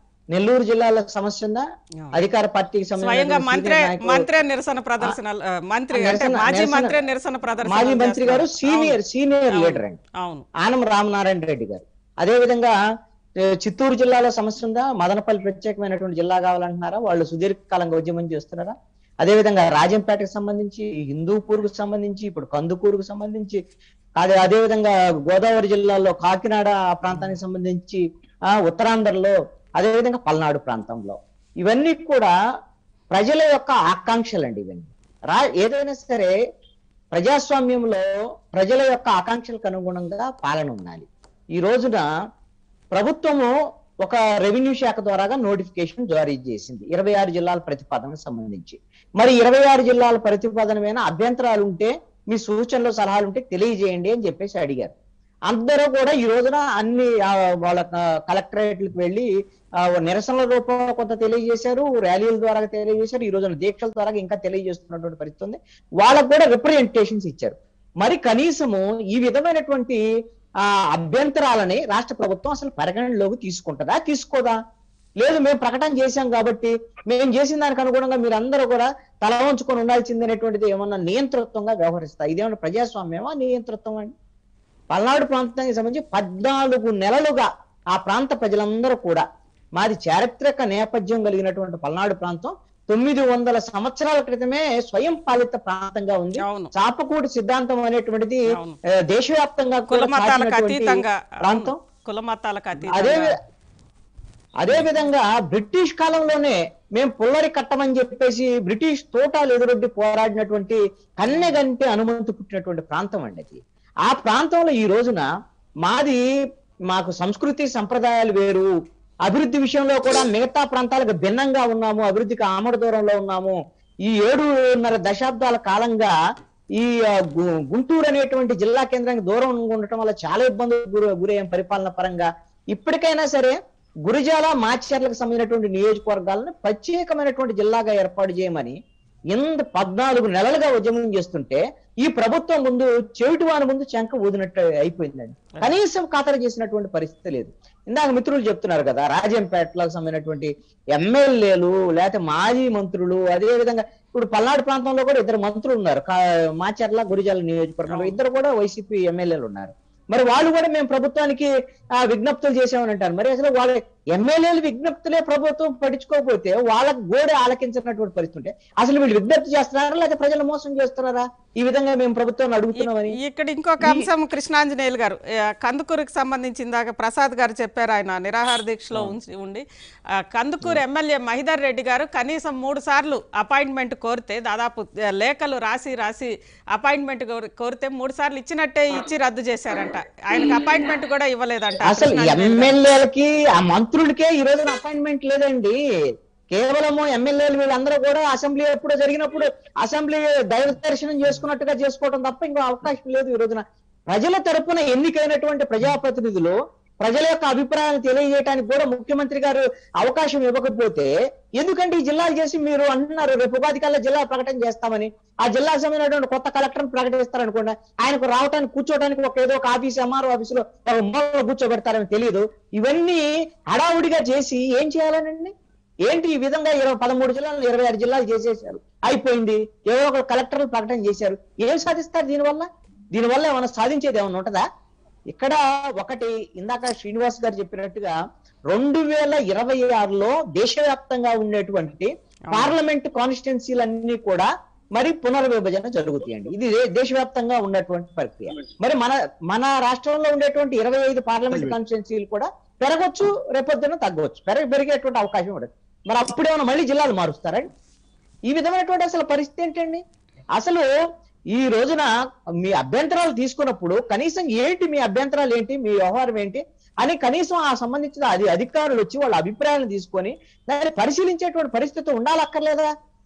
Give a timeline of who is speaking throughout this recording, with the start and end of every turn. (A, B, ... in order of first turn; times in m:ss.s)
0:00.3-0:04.2 A
0:03.0-0:09.0 B
0:05.9-0:07.0 A
0:07.6-0:10.0 A
0:09.6-0:10.4 B
0:10.6-0:12.7 A
0:13.4-0:23.6 A
0:24.2-0:32.3 A
0:27.1-0:27.4 B
0:33.1-0:36.3 A
0:37.1-0:42.0 A
0:42.9-0:43.5 A
0:44.0-0:54.9 A
0:55.5-0:59.3 A
0:59.8-1:10.0 A
1:10.9-1:14.6 A
1:15.2-1:24.1 A
1:24.9-1:29.2 A
1:29.8-1:38.4 A
1:36.4-1:36.7 B
1:38.5-1:38.8 B
1:39.1-1:41.8 A
1:39.9-1:43.3 B
1:42.8-1:43.3 A
1:44.6-1:55.2 A
1:51.3-1:51.6 B
1:55.8-1:56.2 A
1:56.9-1:58.7 A
1:59.3-2:06.1 A
2:06.8-2:18.8 A
2:19.3-2:41.5 A
2:37.9-2:38.2 B
2:42.0-2:53.2 A
2:52.8-2:59.6 B
3:00.2-3:12.7 B
3:11.8-3:15.8 A
3:16.5-3:45.5 A
3:46.1-3:54.6 A
3:55.3-3:58.2 A
3:58.7-4:17.7 A
4:18.5-4:20.0 A
4:20.6-4:20.9 A
4:21.5-4:22.1 A
4:22.6-4:32.9 A